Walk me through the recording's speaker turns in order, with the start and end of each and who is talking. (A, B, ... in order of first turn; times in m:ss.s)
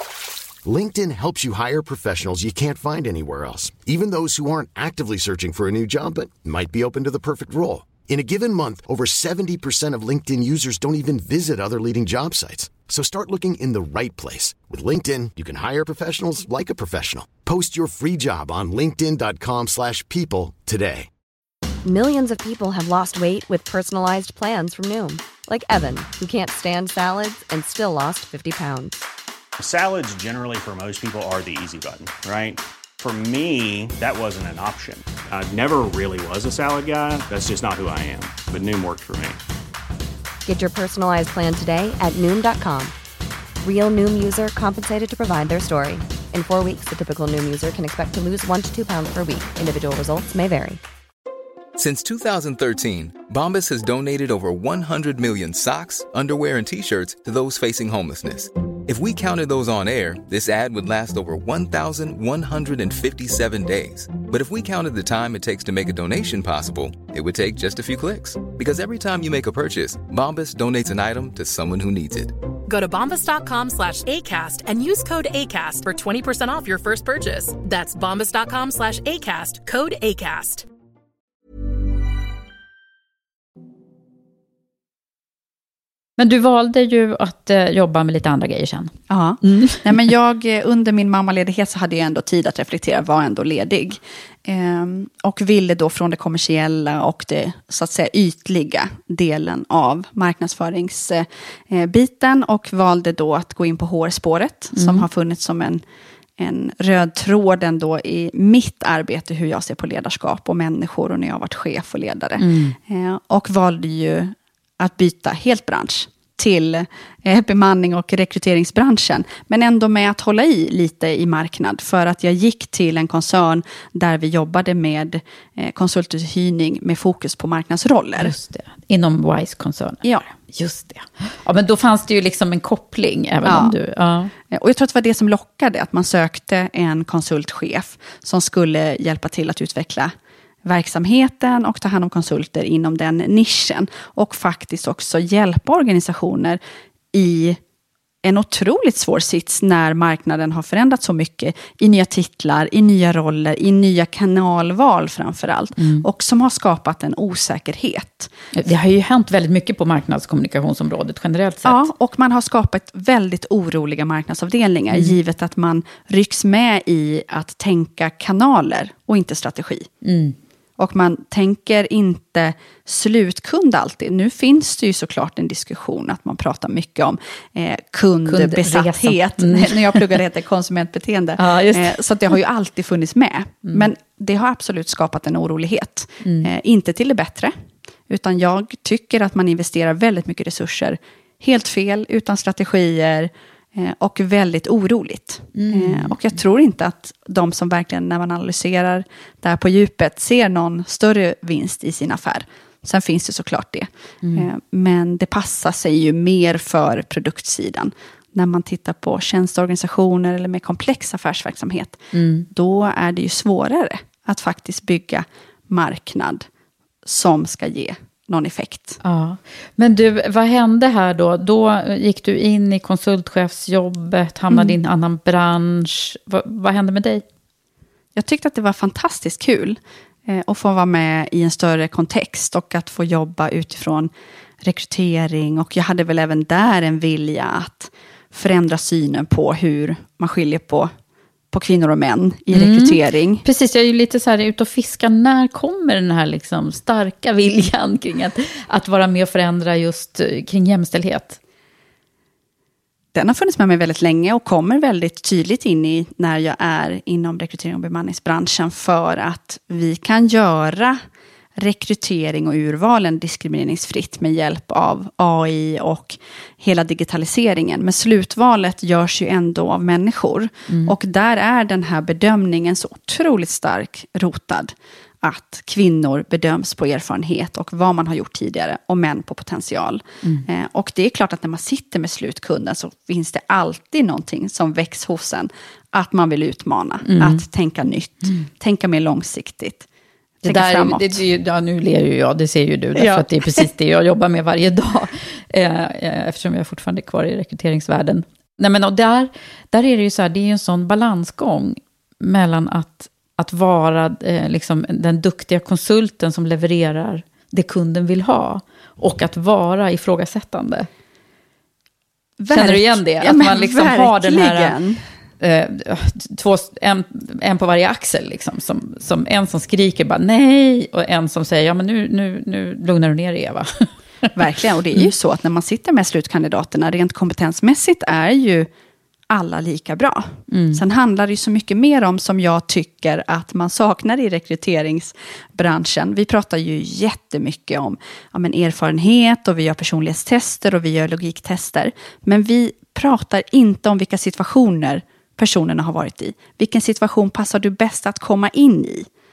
0:00.6-0:21.1 A
0:21.8-0:28.9 B
0:29.6-0:39.4 C
0:40.4-0:42.9 B
0:43.6-0:50.8 B
0:51.8-1:12.3 D
1:12.6-1:20.6 E
1:26.2-1:29.9 F
1:29.1-1:45.8 G
1:44.7-1:45.0 F
1:46.4-2:08.3 G
1:52.4-1:52.8 F
2:08.2-2:14.3 F
2:13.4-2:13.7 G
2:14.5-2:20.1 G
2:20.6-2:26.6 G
2:27.1-2:27.6 G
2:28.2-2:38.3 G
2:35.8-2:36.0 F
2:38.5-2:41.8 F
2:41.6-2:49.9 G
2:50.0-2:50.4 F
2:50.8-3:07.5 G
2:58.2-3:00.2 F
3:01.4-3:01.9 F
3:06.2-3:06.5 F
3:08.1-3:36.4 G
3:15.5-3:16.1 F
3:32.1-3:32.5 F
3:37.0-3:39.0 G
3:39.0-3:47.2 F
3:44.5-3:44.8 G
3:48.2-3:54.1 G
3:54.6-4:00.9 G
4:01.5-4:03.4 G
4:02.5-4:11.4 F
4:13.1-4:21.0 G
4:21.6-4:49.8 G
4:30.7-4:30.9 F
4:47.0-4:47.4 F
4:50.4-5:10.9 F
4:50.4-4:51.2 G
4:53.0-4:53.7 G
5:12.4-5:15.0 G
5:12.5-5:14.7 F
5:15.4-5:24.3 F
5:24.4-5:28.7 G
5:29.3-5:49.1 G
5:30.5-5:30.8 F